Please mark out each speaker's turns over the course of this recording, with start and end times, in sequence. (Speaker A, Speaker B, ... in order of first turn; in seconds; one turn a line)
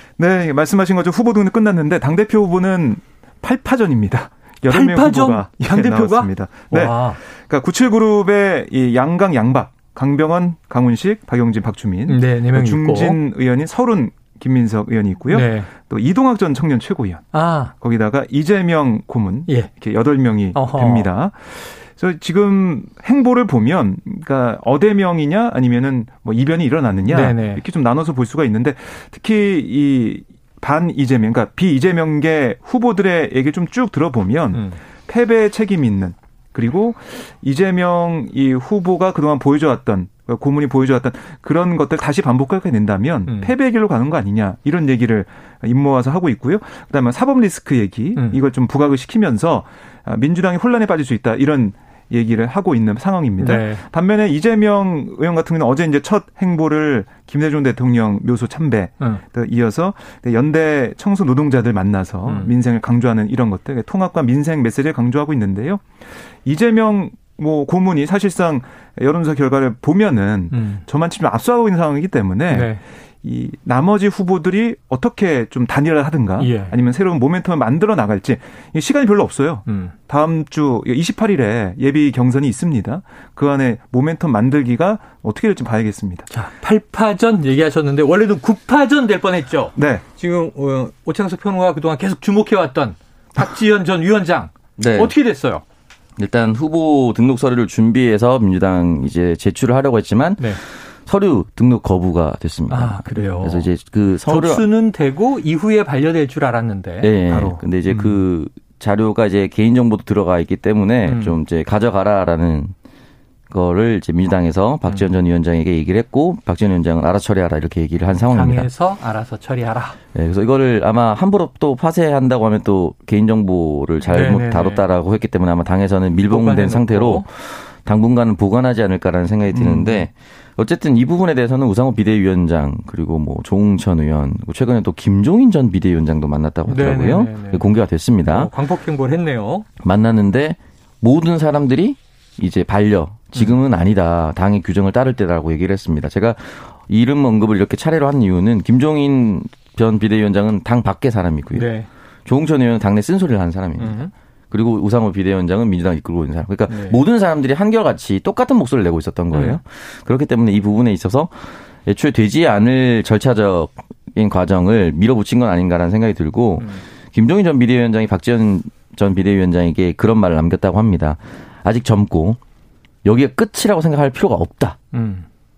Speaker A: 0.2-17.2
Speaker B: 4.7-7.2
Speaker B: 12.1-13.2
Speaker B: 15.3-15.7
Speaker B: 17.3-17.7
Speaker A: 17.8-86.3
Speaker B: 20.6-21.1
Speaker B: 27.1-27.6
Speaker B: 34.5-34.8
Speaker B: 43.3-43.5
Speaker B: 53.4-53.8
Speaker B: 62.2-62.5
Speaker B: 70.5-70.8
Speaker B: 72.5-72.8
Speaker B: 76.4-76.7
Speaker B: 79.7-79.9
Speaker B: 86.3-95.6
Speaker A: 89.8-90.0
Speaker C: 94.8-95.1
Speaker C: 96.2-104.7
Speaker B: 102.7-103.7
Speaker B: 104.2-107.1
Speaker C: 107.0-112.7
Speaker A: 107.3-107.6
Speaker B: 107.9-108.2
Speaker B: 111.0-111.4
Speaker C: 113.5-118.7
Speaker B: 118.2-120.0
Speaker C: 120.1-138.5
Speaker B: 124.1-124.8
Speaker B: 126.3-127.2
Speaker A: 129.5-130.1
Speaker B: 136.7-137.7
Speaker B: 138.3-139.7
Speaker C: 139.8-151.7
Speaker B: 151.5-151.9
Speaker C: 152.2-172.4
Speaker B: 153.8-154.1
Speaker B: 156.7-157.0
Speaker B: 159.3-159.6
Speaker B: 166.6-166.8
Speaker C: 173.1-174.8
Speaker B: 174.9-175.2